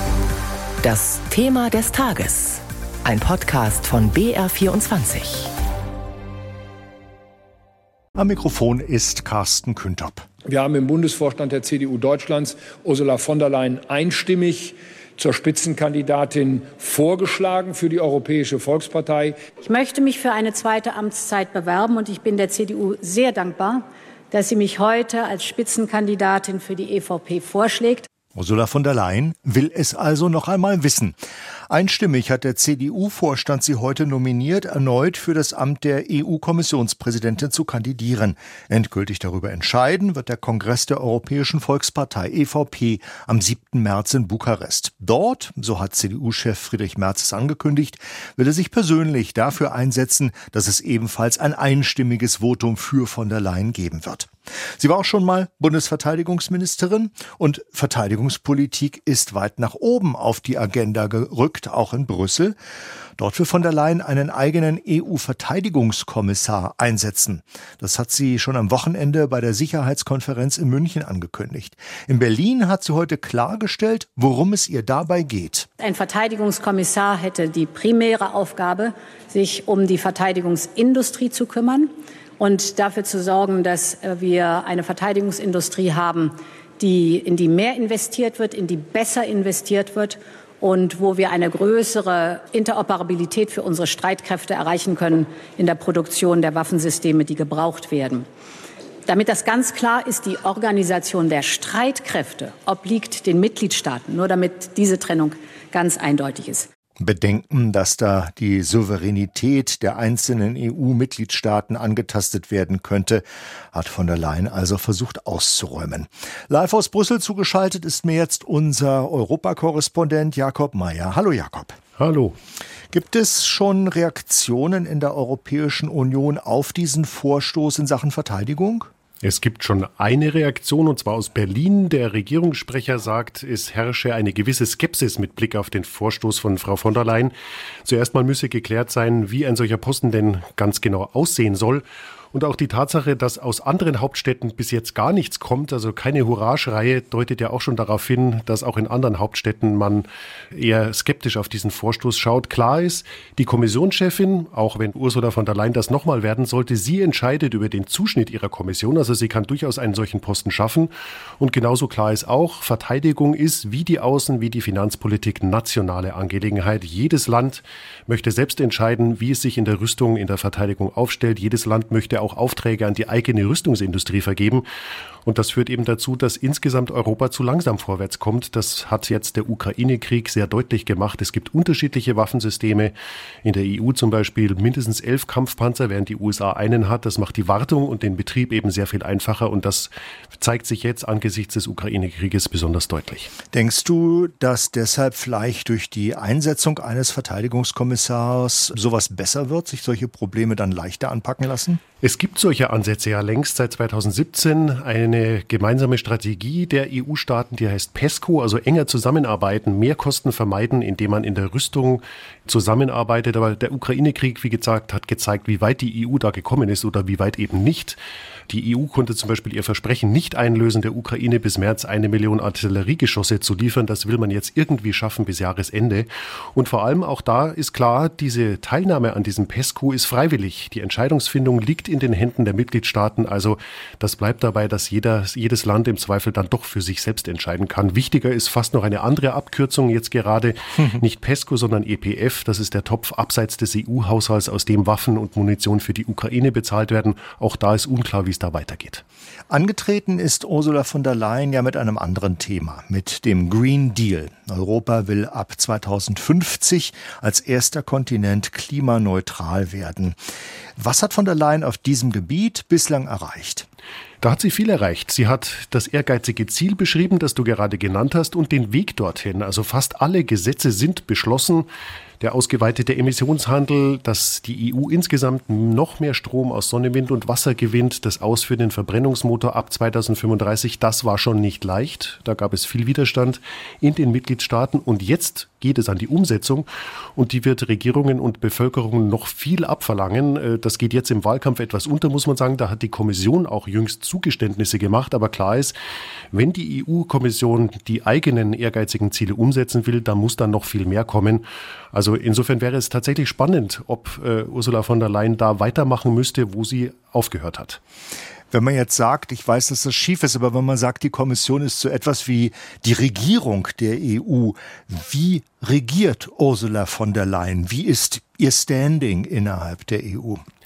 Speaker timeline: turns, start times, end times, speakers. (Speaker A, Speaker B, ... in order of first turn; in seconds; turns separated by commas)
Speaker A: 0.8-5.5, Speaker B: 8.2-10.2, Speaker C: 10.5-19.3, Speaker D: 19.6-28.1, Speaker B: 28.4-31.1, Speaker B: 31.7-62.5, Speaker B: 63.2-75.7, Speaker D: 75.8-98.2, Speaker D: 99.1-106.7, Speaker B: 107.0-121.8, Speaker E: 122.0-122.3, Speaker B: 122.9-128.9, Speaker E: 129.2-137.3, Speaker E: 137.8-174.6, Speaker E: 175.2-182.9, Speaker E: 183.4-193.3, Speaker B: 193.5-201.8, Speaker E: 202.0-218.0, Speaker E: 218.5-249.0, Speaker B: 249.5-260.2, Speaker B: 260.8-263.6, Speaker E: 264.2-271.7, Speaker E: 272.2-295.8, Speaker E: 296.3-307.8, Speaker B: 308.5-320.4